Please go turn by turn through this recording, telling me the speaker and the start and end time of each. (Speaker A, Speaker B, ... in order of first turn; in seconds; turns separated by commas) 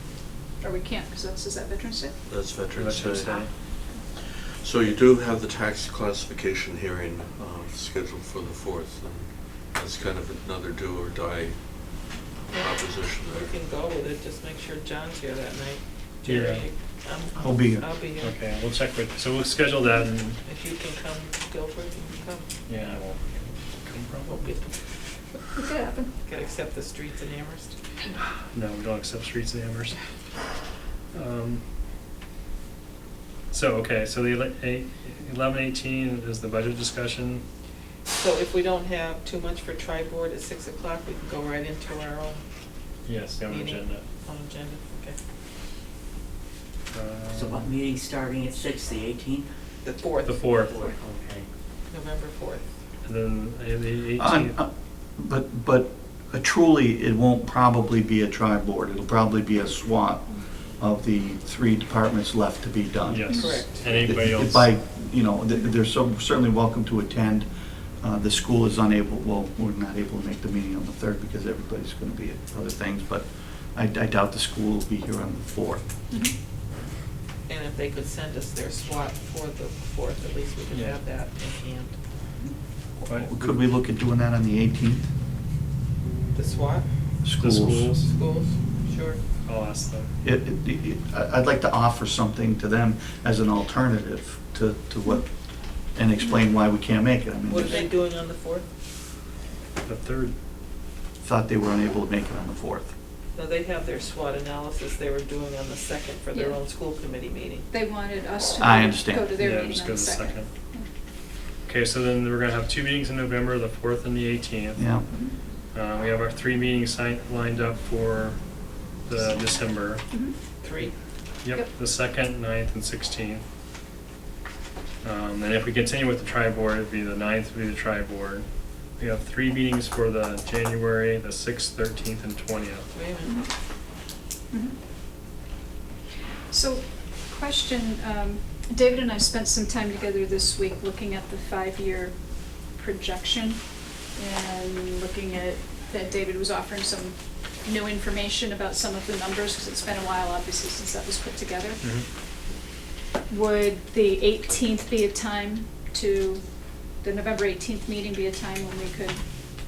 Speaker A: 0.6-2.2, Speaker B: 2.3-3.5, Speaker C: 2.7-3.5, Speaker A: 3.1-3.5, Speaker B: 4.2-11.6, Speaker B: 12.5-13.5, Speaker D: 12.5-18.4, Speaker C: 16.2-16.7, Speaker E: 17.4-17.9, Speaker C: 18.2-20.4, Speaker D: 20.4-22.5, Speaker C: 22.7-24.4, Speaker D: 24.3-24.8, Speaker A: 25.6-26.1, Speaker D: 26.2-27.8, Speaker C: 28.4-30.0, Speaker C: 31.1-31.6, Speaker C: 33.5-37.4, Speaker D: 38.1-42.4, Speaker C: 43.0-44.0, Speaker D: 43.5-45.2, Speaker C: 46.9-47.7, Speaker F: 47.3-49.5, Speaker D: 49.8-50.4, Speaker C: 50.2-50.8, Speaker F: 50.5-51.5, Speaker D: 51.9-52.7, Speaker C: 53.0-54.6, Speaker E: 54.2-75.8, Speaker C: 63.1-64.8, Speaker A: 63.3-63.7, Speaker A: 76.1-76.3, Speaker D: 77.5-82.0, Speaker C: 80.7-81.0, Speaker E: 83.0-85.1, Speaker C: 83.1-83.7, Speaker D: 86.3-86.9, Speaker E: 87.2-87.9, Speaker C: 87.4-88.1, Speaker D: 88.1-89.2, Speaker C: 89.4-90.1, Speaker E: 90.2-97.9, Speaker A: 96.2-96.5, Speaker D: 97.5-98.7, Speaker A: 97.5-97.9, Speaker C: 99.8-100.3, Speaker E: 101.2-102.9, Speaker D: 103.3-107.7, Speaker A: 106.3-106.6, Speaker A: 107.7-110.9, Speaker E: 108.6-109.3, Speaker C: 109.4-110.5, Speaker C: 111.7-114.9, Speaker E: 114.8-115.1, Speaker C: 115.7-118.4, Speaker C: 119.0-120.0, Speaker A: 120.1-120.3, Speaker D: 120.6-120.9, Speaker C: 121.4-123.4, Speaker C: 125.0-128.5, Speaker C: 129.0-132.9, Speaker D: 132.9-133.4, Speaker A: 136.5-143.6, Speaker A: 144.2-151.8, Speaker A: 153.3-156.4, Speaker A: 157.0-159.2